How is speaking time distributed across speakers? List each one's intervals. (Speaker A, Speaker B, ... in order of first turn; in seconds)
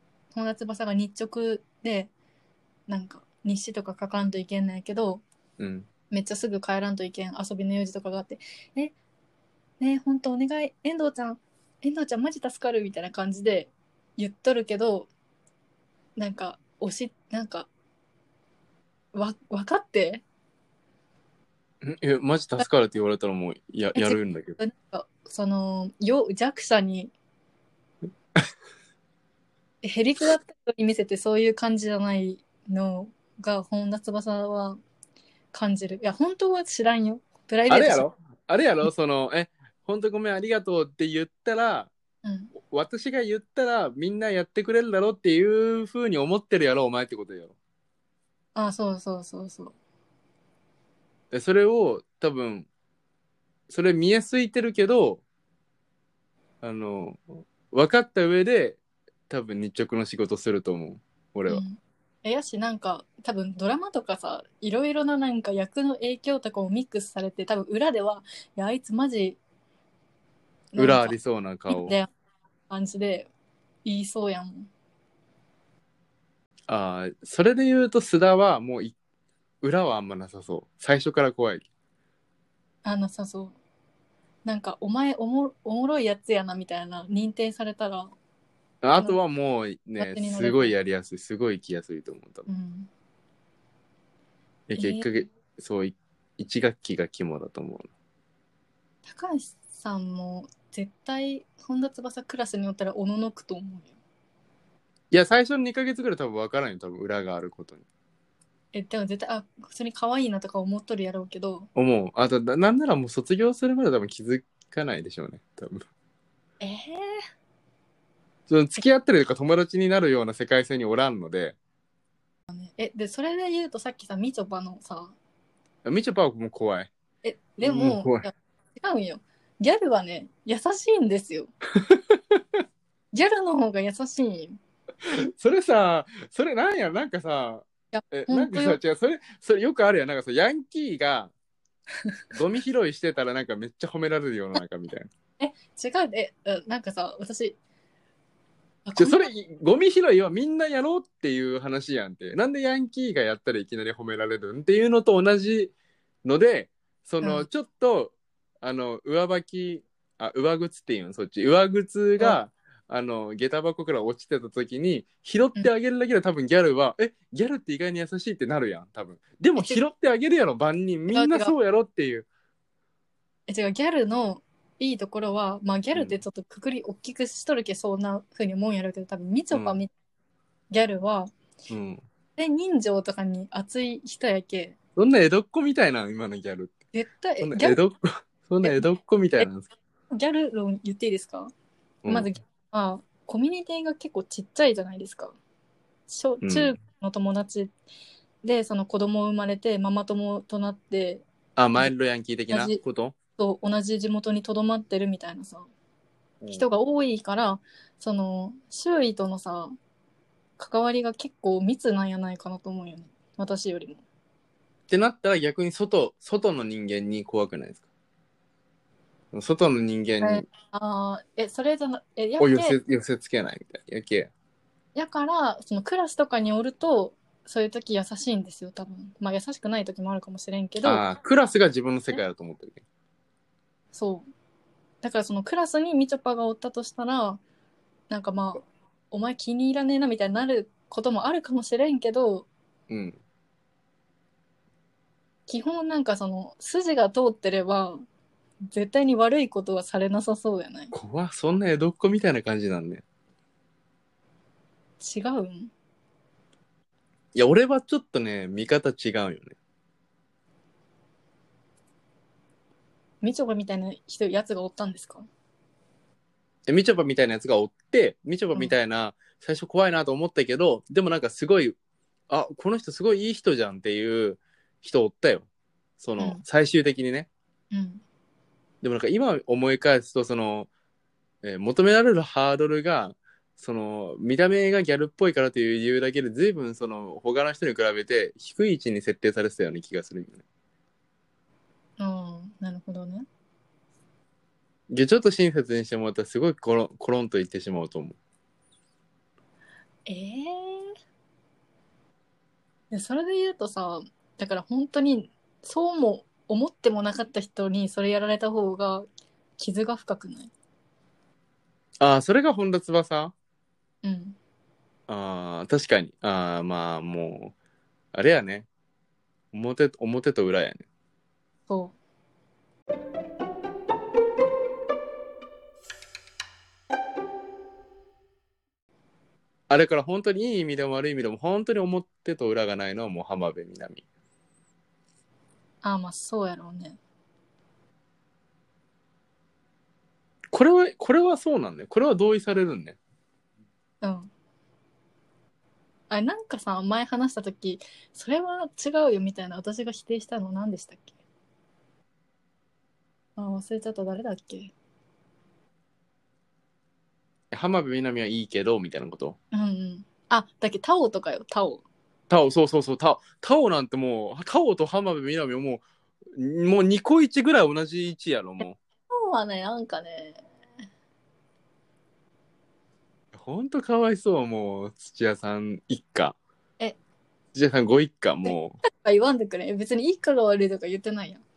Speaker A: 0.3-2.1, 2.9-5.2, 6.1-8.9, 9.8-15.1, 16.2-17.7, 19.1-20.2, 23.9-27.1, 29.8-34.8, 35.5-38.0, 42.2-42.5, 48.5-49.7, 61.5-69.4, 70.7-71.2, 71.7-72.1, 72.7-73.3, 73.8-74.7, 82.8-83.5, 84.4-88.1, 90.0-90.7, 92.5-92.9, 94.8-95.1, 99.0-103.9, 108.7-111.7, 116.6-117.2, 122.5-125.1, 127.2-131.5, 133.1-134.6, 137.9-138.8, 145.4-147.6, 148.8-149.3, 157.2-157.5, 169.6-169.8, 171.1-171.5, 173.5-179.9, 180.7-181.3, 182.4-184.8, 186.9-187.8, 190.1-191.5, 192.1-195.4, 196.1-197.7, 198.4-201.9, 202.5-202.8, 203.4-205.7, 206.5-209.7, 210.6-214.0, 220.2-222.8, 224.9-231.0, 233.9-234.2, 235.0-237.4, 238.1-242.5, 245.5-248.0, 248.7-250.9, 255.0-255.7, 263.2-265.3, 276.2-276.4, 277.7-278.0, 292.0-293.2, 300.1-300.9, 302.9-309.1, 309.6-310.5, 314.0-314.4, 321.7-321.9, 335.8-337.0, 344.0-344.3, 346.1-351.1, 353.4-354.7, 359.5-361.8, 369.1-370.4, 378.4-381.4
Speaker B: 5.6-5.9, 21.8-24.6, 37.7-41.9, 42.6-47.5, 51.3-52.7, 53.7-55.2, 56.6-61.6, 70.8-72.0, 76.7-79.0, 79.6-81.7, 88.8-92.5, 94.7-97.9, 105.1-107.8, 111.7-115.8, 118.5-121.5, 125.8-126.9, 127.6-128.3, 131.8-132.4, 135.1-141.3, 142.3-145.1, 148.9-155.7, 156.2-172.3, 179.5-179.8, 181.7-182.0, 184.9-186.8, 187.4-189.7, 192.0-192.3, 196.4-196.8, 201.6-203.2, 206.4-206.7, 214.9-217.8, 219.3-220.4, 222.4-224.3, 230.8-232.8, 242.9-243.2, 250.9-253.0, 257.3-259.5, 266.7-271.8, 272.3-275.5, 276.0-277.3, 278.8-280.7, 281.4-290.4, 294.9-298.2, 312.0-313.3, 315.1-317.5, 318.1-318.7, 319.5-320.8, 329.7-334.0, 340.5-343.0, 357.5-359.4, 362.3-365.8, 366.3-368.8, 373.3-376.4, 377.5-378.8